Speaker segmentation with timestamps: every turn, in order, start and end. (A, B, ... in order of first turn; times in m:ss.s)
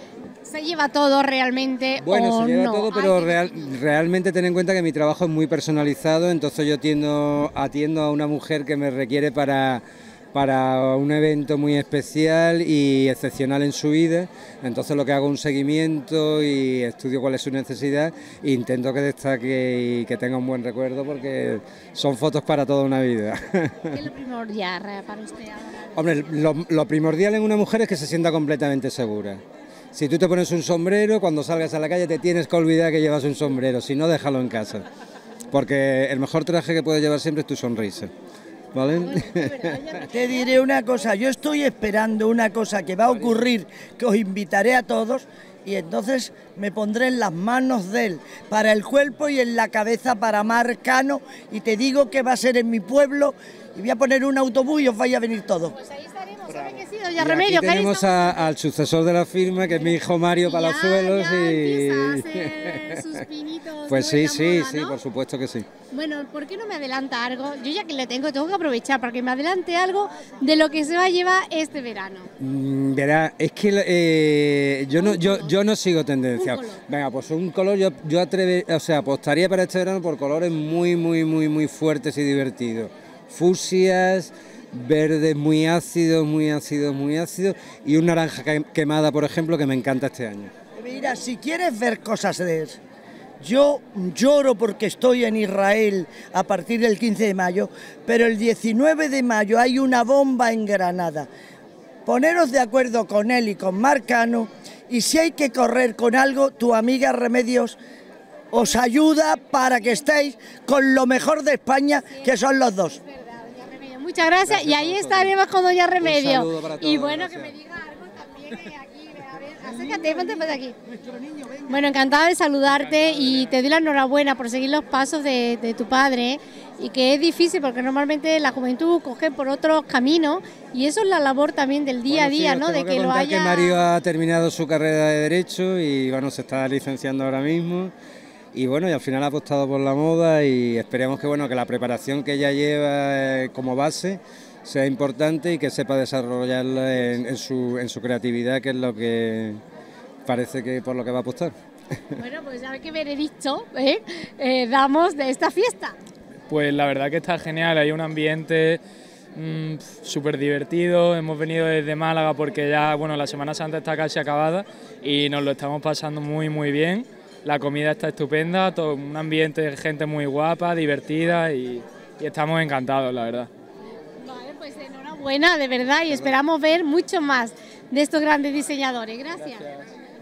0:00.4-0:03.7 A
0:02.0-0:24.0 B
0:23.9-0:26.1 A
0:26.0-0:29.4 B
0:29.9-0:34.8 B
0:35.5-0:38.1 B
0:38.7-0:40.0 B
0:39.0-0:40.5 A
0:40.1-0:55.7 C
0:55.7-0:58.5 A
0:56.5-1:03.2 B
0:59.6-1:05.0 A
1:03.9-1:05.6 B
1:05.9-1:12.3 A
1:12.4-1:30.5 B
1:15.0-1:15.6 A
1:16.3-1:16.8 A
1:30.8-1:32.8 C
1:33.4-1:41.3 C
1:42.0-1:47.8 C
1:48.5-1:53.0 C
1:52.9-2:00.7 A
1:54.4-1:55.3 B
1:56.0-1:57.5 B
1:59.9-2:00.2 C
2:01.1-2:01.6 C
2:01.7-2:13.8 A
2:12.1-2:17.9 B
2:18.5-2:29.6 B
2:30.2-2:31.5 B
2:32.2-2:36.0 A
2:36.5-2:38.8 D
2:39.3-2:53.5 D
2:54.2-2:59.6 A